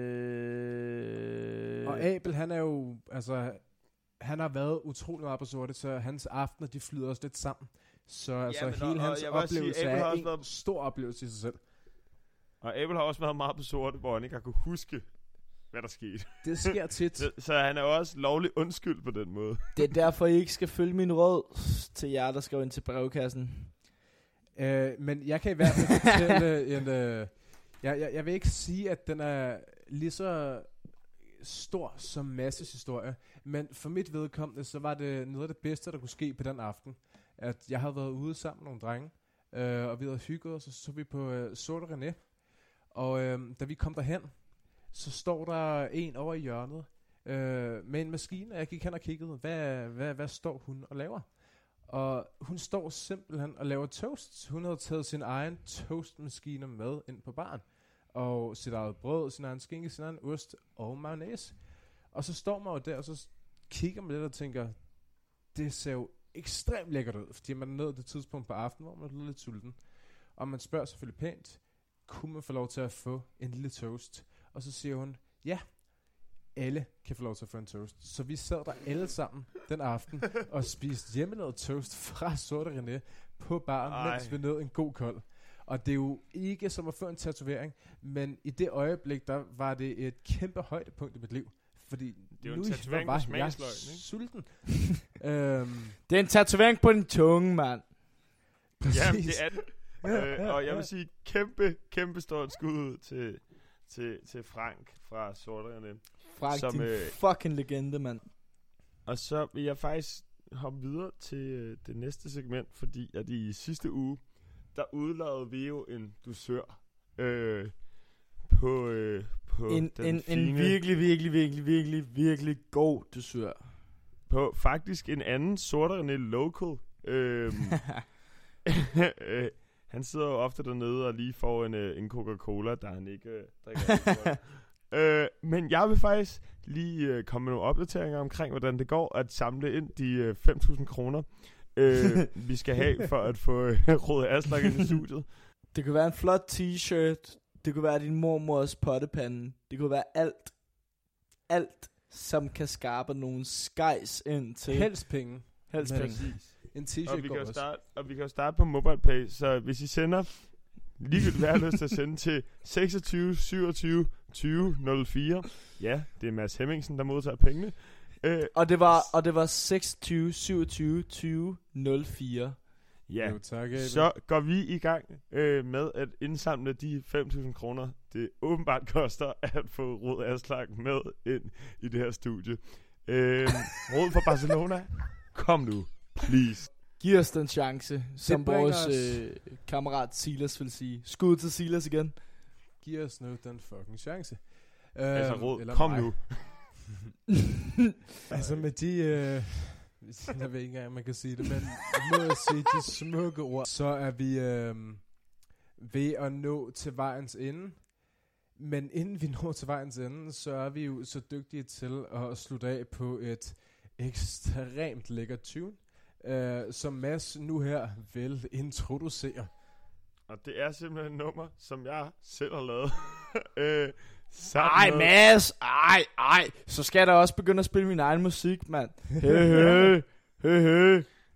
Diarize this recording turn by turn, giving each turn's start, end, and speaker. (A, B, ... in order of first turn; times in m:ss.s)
0:01.8-0:11.7 A
0:08.5-0:10.5 B
0:12.6-0:19.8 B
0:16.4-0:17.3 A
0:19.7-0:23.7 C
0:24.5-1:36.0 A
1:23.8-1:24.4 B
1:32.4-1:34.2 B
1:36.1-1:37.9 C
1:38.8-1:39.7 A
1:38.9-1:47.2 B
1:46.3-1:48.3 C
1:49.0-2:00.8 B
1:59.7-2:03.8 C
2:04.3-2:08.1 B
2:08.6-2:25.4 B
2:25.7-2:36.3 C
2:34.7-2:37.6 A
2:35.8-2:49.1 B
2:48.5-2:52.6 C
2:53.1-3:06.7 B
2:53.2-2:54.1 A
3:07.0-3:12.2 C
3:08.2-3:09.3 A
3:12.8-3:16.7 A
3:15.1-3:16.8 B
3:18.3-3:18.7 B
3:18.3-3:28.0 A
3:28.5-3:39.5 A
3:40.3-3:45.2 B
3:44.5-3:51.1 C
3:49.5-3:49.9 B